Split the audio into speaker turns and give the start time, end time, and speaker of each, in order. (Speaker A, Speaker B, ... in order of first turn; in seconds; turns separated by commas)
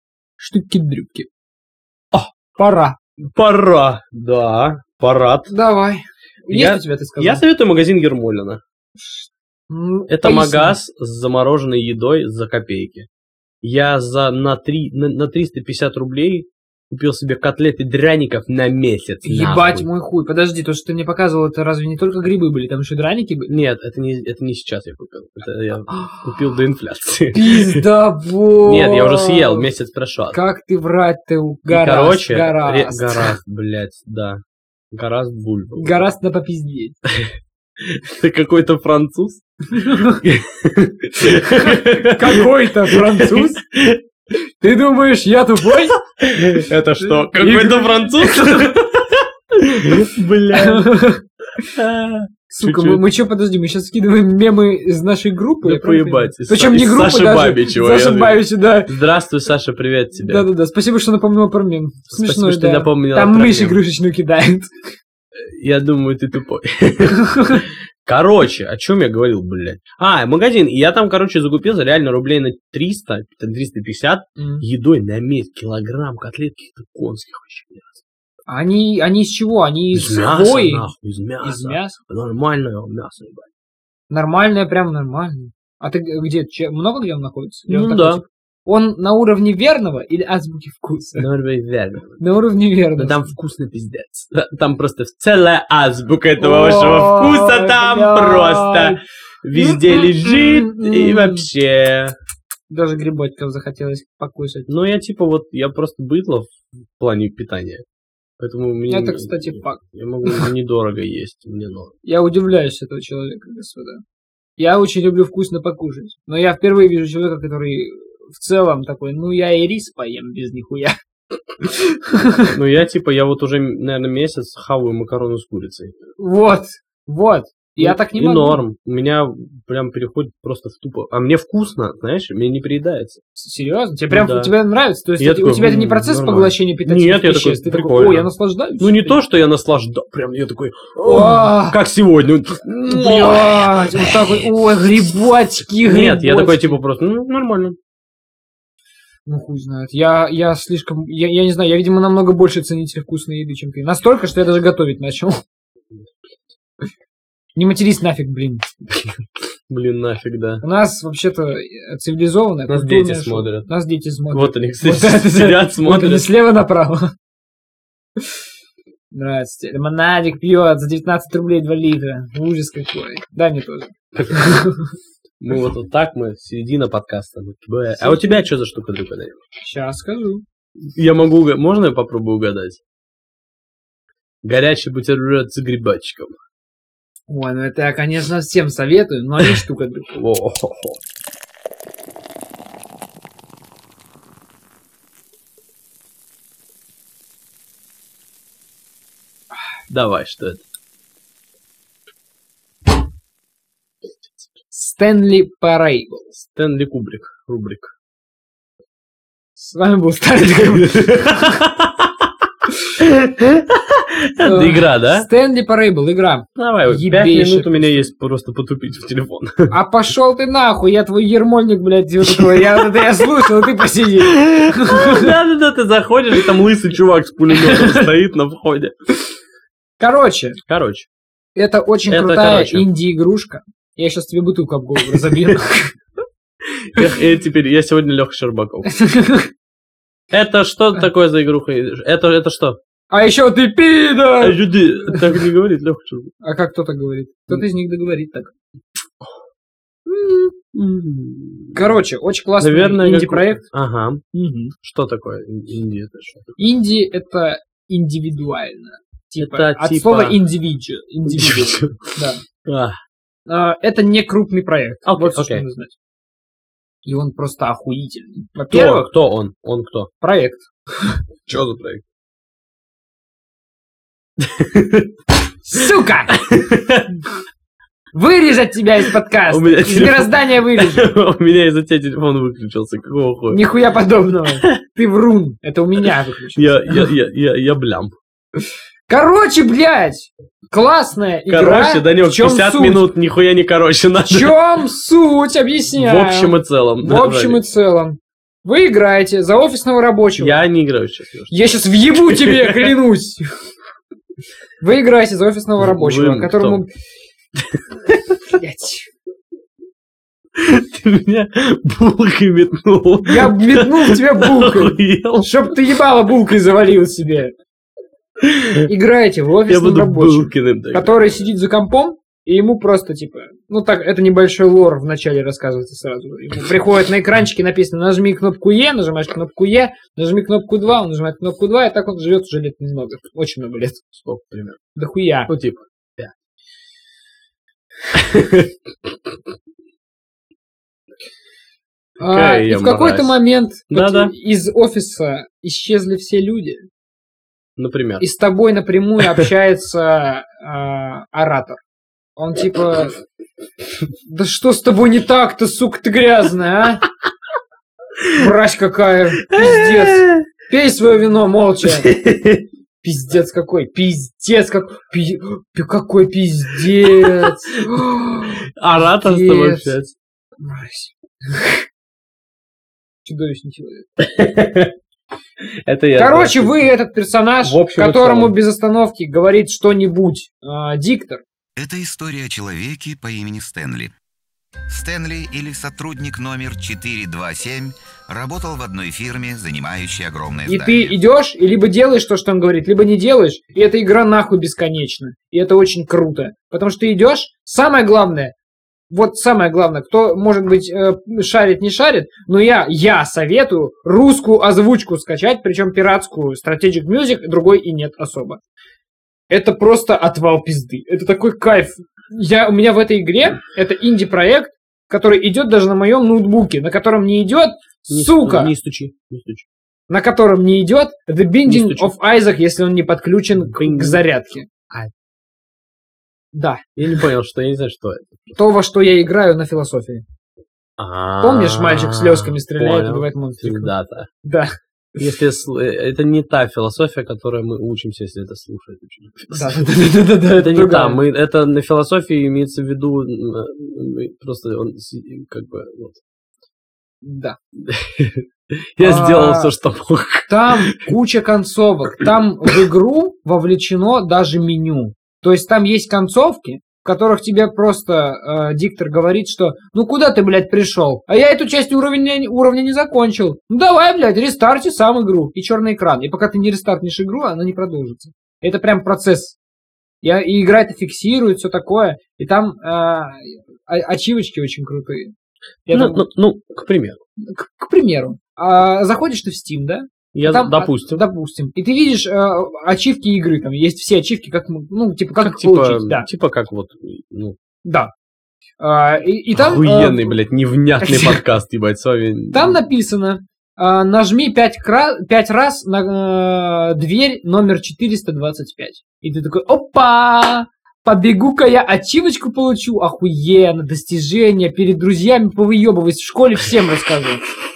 Speaker A: 0.4-1.3, Speaker A: 2.4-3.0, Speaker B: 3.2-5.5, Speaker A: 5.5-7.4, Speaker B: 6.5-8.6, Speaker A: 9.0-10.8, Speaker B: 10.1-13.1, Speaker B: 13.6-19.9, Speaker A: 19.2-23.5, Speaker B: 23.5-27.9, Speaker A: 27.3-29.7, Speaker B: 28.6-30.4, Speaker A: 30.3-33.4, Speaker B: 31.7-34.4, Speaker B: 34.9-36.1, Speaker A: 35.8-37.0, Speaker B: 37.1-44.0, Speaker A: 39.8-40.2, Speaker A: 41.3-43.6, Speaker A: 44.6-46.0, Speaker B: 46.1-50.9, Speaker A: 47.0-48.8, Speaker A: 50.5-51.2, Speaker B: 51.6-53.0, Speaker A: 52.5-59.0, Speaker B: 55.6-60.5, Speaker A: 60.2-64.9, Speaker B: 62.1-63.8, Speaker B: 65.4-78.0, Speaker A: 67.1-67.6, Speaker A: 74.4-74.6, Speaker A: 78.5-80.9, Speaker B: 79.9-83.5, Speaker A: 81.4-82.0, Speaker A: 84.1-91.3, Speaker B: 87.7-88.2, Speaker B: 91.2-92.2, Speaker A: 92.2-93.3, Speaker B: 93.0-102.2, Speaker A: 96.4-99.0, Speaker A: 99.5-101.5, Speaker A: 102.7-104.7, Speaker B: 104.7-107.8, Speaker B: 108.4-111.9, Speaker A: 108.9-110.5, Speaker A: 112.0-114.0, Speaker A: 114.6-121.0, Speaker A: 121.6-122.5, Speaker B: 122.5-126.0, Speaker A: 126.2-128.6, Speaker B: 127.8-133.2, Speaker A: 133.3-139.2, Speaker B: 134.1-134.5, Speaker B: 135.2-144.3, Speaker A: 141.0-141.8, Speaker A: 142.8-146.8, Speaker B: 145.8-147.8, Speaker A: 149.3-155.4, Speaker A: 157.6-158.7, Speaker B: 158.9-160.6, Speaker A: 160.6-167.1, Speaker B: 162.7-163.7, Speaker B: 164.3-166.3, Speaker A: 168.2-168.4, Speaker A: 169.1-174.9, Speaker B: 174.2-174.6, Speaker B: 175.4-179.4, Speaker A: 178.0-178.5, Speaker A: 179.6-180.4, Speaker B: 180.8-182.8, Speaker B: 184.4-186.3, Speaker A: 187.3-190.2, Speaker B: 190.2-191.0, Speaker B: 199.9-200.6, Speaker A: 204.7-206.3, Speaker B: 206.4-207.9, Speaker A: 209.6-211.6, Speaker B: 210.7-212.1, Speaker B: 213.0-215.3, Speaker A: 214.4-218.1, Speaker B: 216.6-219.7, Speaker A: 219.7-225.3, Speaker B: 222.3-222.8, Speaker B: 224.2-228.9, Speaker A: 227.5-228.1, Speaker A: 230.0-230.6, Speaker B: 230.7-231.1, Speaker A: 231.6-236.0, Speaker B: 232.1-232.9, Speaker B: 235.2-235.6, Speaker B: 236.7-238.9, Speaker A: 238.9-239.5, Speaker B: 240.3-242.8, Speaker A: 243.1-245.4, Speaker B: 244.4-246.3, Speaker A: 246.4-248.5, Speaker A: 250.1-250.5, Speaker B: 250.7-251.9, Speaker A: 251.7-253.6, Speaker B: 252.6-254.2, Speaker A: 254.3-254.8, Speaker B: 254.8-256.5, Speaker A: 256.6-262.4, Speaker B: 259.4-260.4, Speaker B: 261.3-263.0, Speaker A: 263.5-265.9, Speaker B: 265.1-265.6, Speaker A: 267.0-269.1, Speaker B: 268.7-270.1, Speaker A: 270.2-271.2, Speaker B: 271.5-272.0, Speaker B: 274.4-275.1, Speaker A: 275.7-276.4, Speaker B: 276.3-277.1, Speaker A: 278.1-281.1, Speaker B: 279.5-283.6, Speaker A: 283.5-287.1, Speaker B: 286.6-288.2, Speaker A: 289.1-293.0, Speaker B: 291.5-294.6, Speaker A: 294.3-300.6, Speaker B: 296.0-297.6, Speaker B: 300.4-301.5, Speaker A: 301.5-303.5, Speaker B: 302.2-302.9, Speaker A: 304.8-306.9, Speaker B: 305.8-306.8, Speaker B: 307.6-308.4, Speaker A: 308.5-309.1, Speaker B: 310.6-315.5, Speaker A: 313.2-317.6, Speaker B: 318.4-318.9, Speaker A: 318.9-334.0, Speaker B: 319.7-321.4, Speaker B: 334.1-334.8, Speaker A: 335.0-335.5, Speaker B: 335.5-336.3, Speaker B: 338.1-338.7, Speaker A: 342.2-346.9, Speaker B: 342.2-343.4, Speaker B: 343.9-344.3, Speaker B: 347.8-348.2, Speaker A: 348.2-351.8, Speaker A: 352.4-353.2, Speaker A: 354.3-357.0, Speaker A: 358.3-362.1, Speaker B: 359.5-360.5, Speaker B: 362.0-362.6, Speaker A: 363.0-370.0, Speaker B: 367.2-367.5, Speaker B: 368.8-370.1, Speaker A: 370.6-371.8, Speaker A: 373.2-374.1, Speaker B: 374.2-374.9, Speaker B: 375.9-376.9, Speaker A: 376.2-381.4, Speaker B: 377.6-378.6, Speaker C: 381.8-384.1, Speaker C: 384.9-391.1, Speaker A: 390.7-398.6, Speaker A: 399.1-408.6, Speaker A: 409.5-418.7, Speaker B: 418.1-419.7, Speaker A: 420.1-424.7, Speaker B: 421.7-422.1, Speaker B: 423.6-424.2, Speaker A: 426.5-426.9, Speaker B: 427.0-428.4, Speaker A: 428.6-430.2, Speaker B: 431.0-434.3, Speaker A: 431.4-433.9, Speaker A: 434.4-434.8, Speaker B: 435.2-446.2, Speaker A: 439.5-441.2, Speaker A: 447.2-447.6, Speaker B: 447.8-451.1, Speaker A: 449.0-449.7, Speaker A: 450.5-469.6, Speaker A: 470.2-475.3, Speaker A: 475.9-476.2, Speaker B: 475.9-477.2, Speaker A: 477.4-486.3, Speaker B: 480.3-481.2, Speaker B: 485.4-487.6, Speaker A: 487.8-488.1, Speaker A: 488.8-490.4, Speaker B: 489.5-492.8, Speaker A: 491.0-491.4, Speaker A: 492.5-507.4